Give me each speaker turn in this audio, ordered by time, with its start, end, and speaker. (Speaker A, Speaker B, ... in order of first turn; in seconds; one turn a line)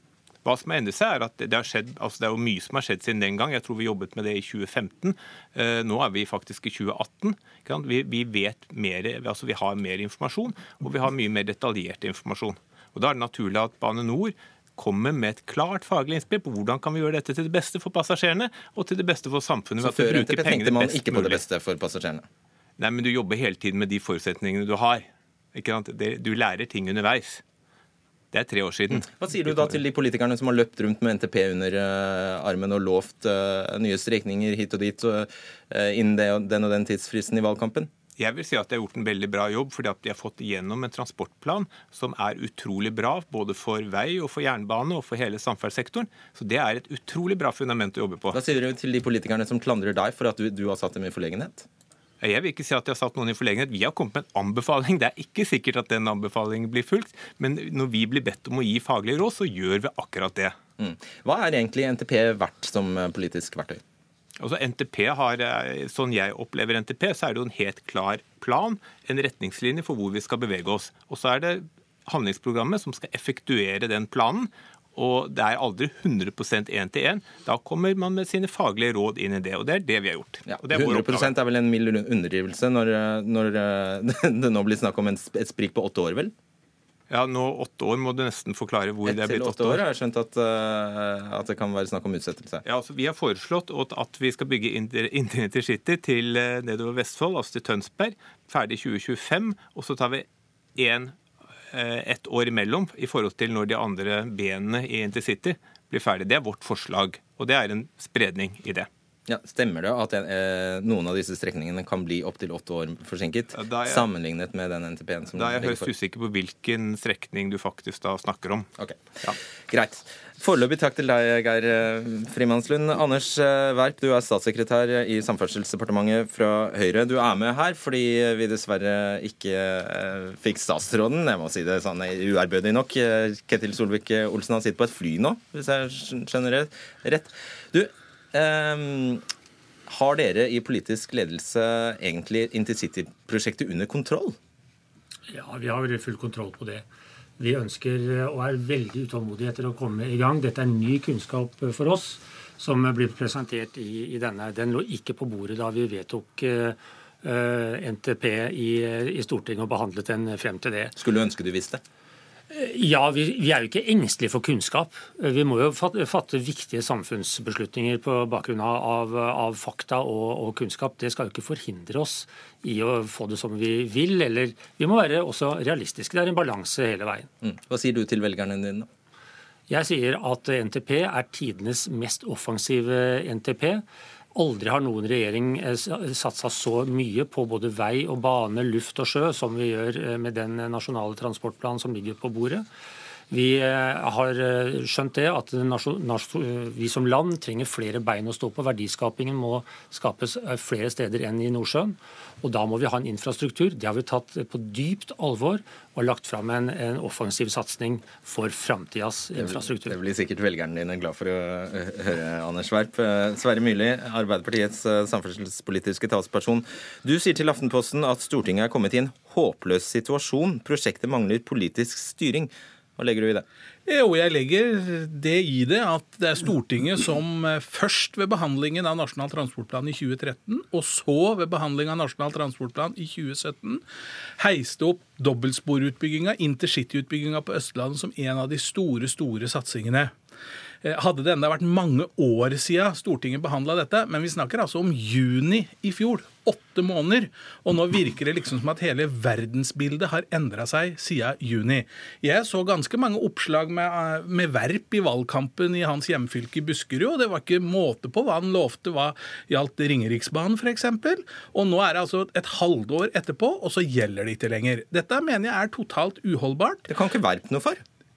Speaker A: 0.5-21.4
Speaker B: 19.8-22.3
Speaker A: 22.8-27.4
Speaker A: 28.3-29.8
Speaker B: 28.9-37.9
Speaker A: 38.2-48.4
Speaker B: 48.3-51.7
Speaker A: 52.2-60.5
Speaker B: 60.8-63.8
Speaker A: 64.4-81.4
Speaker B: 80.5-86.3
Speaker A: 87.1-89.8
Speaker B: 89.0-92.6
Speaker A: 92.7-101.2
Speaker A: 101.7-108.9
Speaker B: 109.3-115.9
Speaker A: 113.5-114.1
Speaker A: 115.3-118.7
Speaker B: 118.8-139.2
Speaker B: 139.9-144.4
Speaker C: 145.3-146.8
Speaker C: 147.4-160.9
Speaker B: 161.0-161.8
Speaker C: 162.5-177.3
Speaker B: 177.4-178.9
Speaker C: 179.7-192.7
Speaker C: 193.3-210.0
Speaker B: 209.4-223.4
Speaker D: 223.9-233.8
Speaker D: 234.4-240.1
Speaker D: 240.8-266.9
Speaker B: 266.9-267.8